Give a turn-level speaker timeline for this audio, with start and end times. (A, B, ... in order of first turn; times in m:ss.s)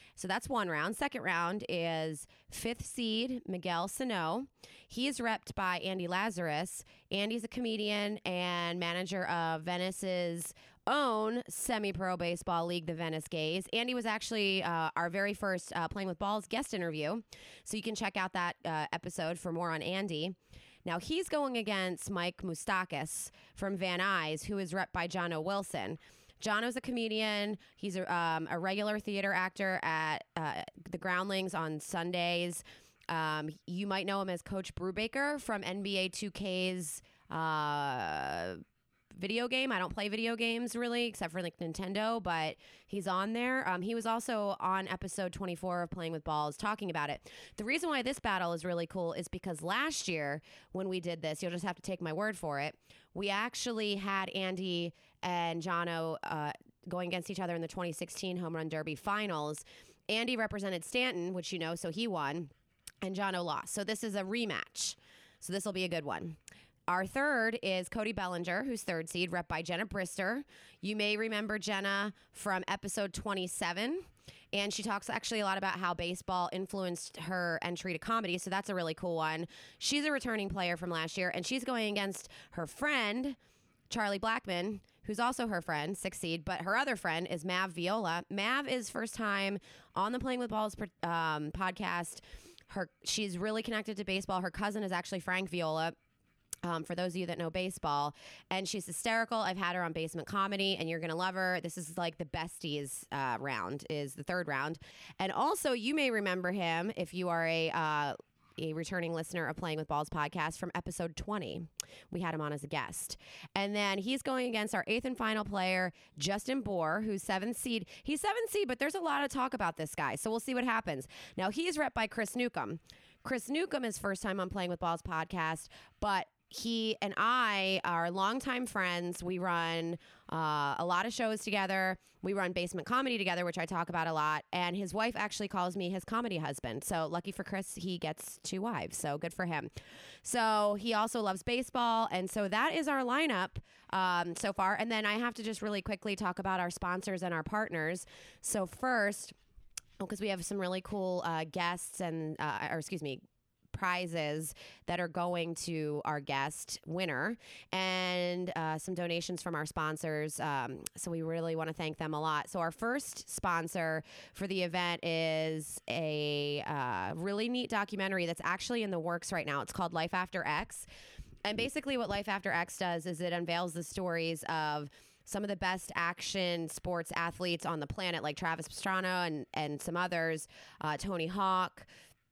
0:00.2-0:38.6 A
0:39.2-1:02.5 A
1:03.0-1:06.4 A
1:06.9-1:23.4 A
1:23.9-1:36.0 A
1:36.6-2:19.7 A
2:20.2-2:29.3 A
2:30.0-2:33.2 A
2:33.7-2:50.9 A
2:51.4-3:01.9 A